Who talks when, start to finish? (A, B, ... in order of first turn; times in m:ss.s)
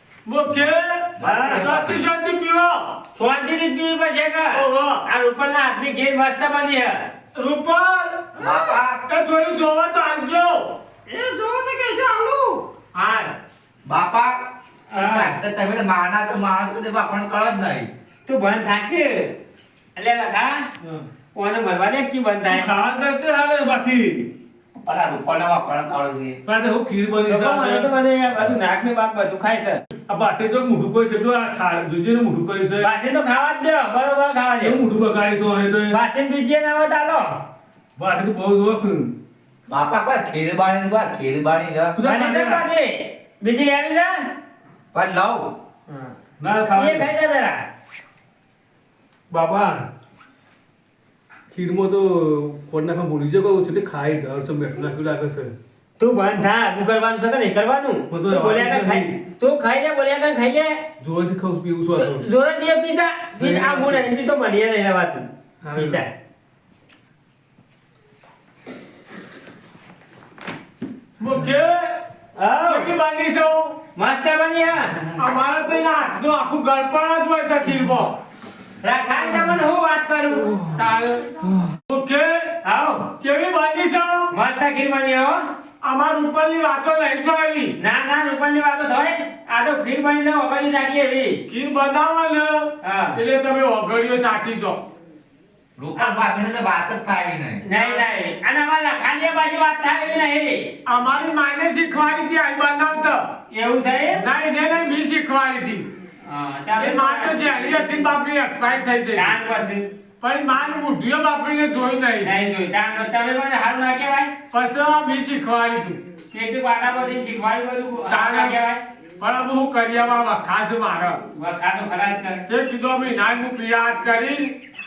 0:00.2-0:02.9 A
0:01.2-0:02.0 B
0:01.3-0:01.7 C
0:03.2-0:07.1 D
0:04.5-0:05.0 A
0:07.4-0:08.4 A
0:08.4-0:08.8 E
0:08.4-0:09.0 B
0:09.1-0:10.8 A
0:11.1-0:12.6 E
0:12.9-0:13.3 A
0:13.8-0:14.4 B
0:14.9-0:15.4 D
0:15.0-0:17.9 B
0:18.3-0:19.3 D
0:20.0-0:20.7 D
0:21.3-0:22.7 D
0:22.5-0:24.3 C
0:24.8-0:26.4 B
0:26.5-0:27.9 C
0:27.3-0:29.8 D
0:30.1-0:32.9 C
0:32.8-0:34.8 D
0:34.6-0:36.0 C
0:35.9-0:37.4 D
0:38.0-0:39.1 C
0:39.7-0:42.0 B
0:42.0-0:42.7 C
0:42.0-0:44.3 D
0:44.9-0:45.5 B
0:45.9-0:46.1 D
0:46.4-0:47.1 C
0:46.7-0:47.7 D
0:49.3-0:49.9 C
0:51.5-0:55.6 C
0:56.0-1:00.8 D
0:58.1-0:59.2 C
1:01.0-1:02.2 C
1:02.0-1:06.1 D
1:03.4-1:04.0 C
1:05.6-1:06.0 C
1:11.2-1:12.0 A
1:12.4-1:13.0 D
1:12.6-1:13.8 A
1:14.0-1:15.1 D
1:15.2-1:18.2 A
1:18.8-1:20.6 D
1:20.7-1:21.3 A
1:21.9-1:22.6 A
1:22.6-1:23.1 D
1:23.2-1:24.3 A
1:24.3-1:25.5 D
1:25.8-1:27.8 A
1:27.8-1:31.4 D
1:31.5-1:34.8 A
1:32.8-1:33.2 D
1:35.8-1:37.6 B
1:36.0-1:36.3 D
1:37.6-1:40.7 D
1:37.7-1:38.0 A
1:40.9-1:43.3 A
1:43.5-1:44.2 D
1:44.1-1:45.9 A
1:46.2-1:47.9 D
1:46.8-1:49.4 A
1:49.2-1:49.9 D
1:50.2-1:52.3 A
1:52.2-1:54.3 D
1:54.5-1:56.0 A
1:56.3-1:58.8 D
1:58.1-1:58.6 A
1:59.2-2:01.2 A
2:01.3-2:02.4 D
2:02.5-2:04.5 A